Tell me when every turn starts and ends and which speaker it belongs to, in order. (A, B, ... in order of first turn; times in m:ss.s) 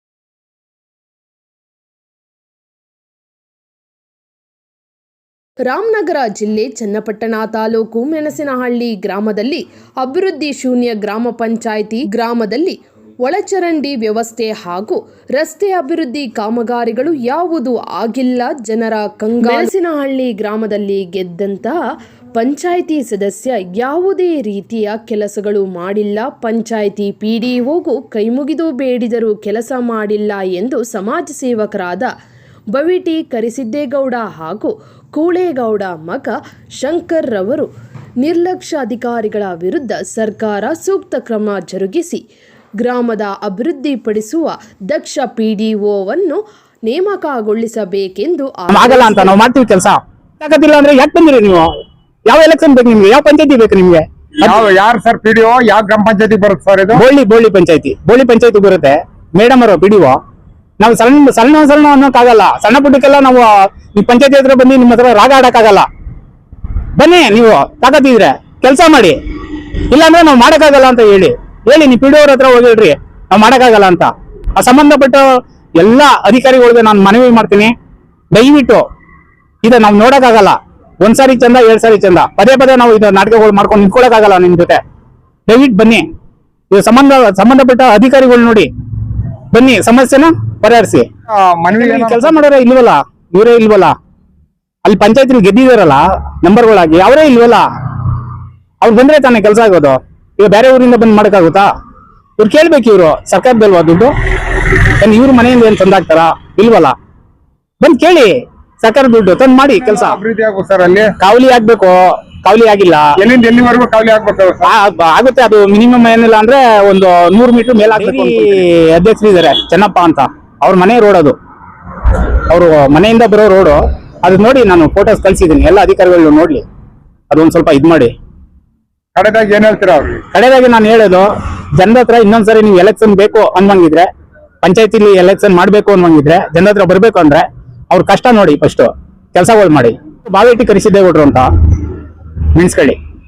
0:05.6-0:21.8 A
0:22.4-0:32.1 A
0:32.7-0:37.7 A
0:38.2-0:42.2 A
0:42.8-0:49.4 A
0:48.7-0:51.7 B
0:52.3-0:54.6 B
0:54.4-0:57.0 C
0:56.9-1:00.2 B
1:00.8-1:05.9 B
1:07.0-1:15.2 B
1:15.8-1:17.7 B
1:18.3-1:18.8 B
1:19.6-1:24.8 B
1:25.5-1:26.0 B
1:26.7-1:28.7 B
1:29.5-1:31.1 B
1:31.3-1:32.4 C
1:31.8-1:33.9 B
1:34.8-1:38.1 B
1:38.8-1:41.7 B
1:42.4-1:47.0 B
1:47.8-1:50.2 B
1:49.8-1:51.1 C
1:51.2-1:53.1 B
1:53.2-1:54.7 C
1:54.6-2:01.3 B
2:02.1-2:06.6 B
2:07.3-2:08.1 B
2:09.1-2:10.2 C
2:10.3-2:14.1 B
2:14.6-2:21.9 B
2:22.5-2:23.0 B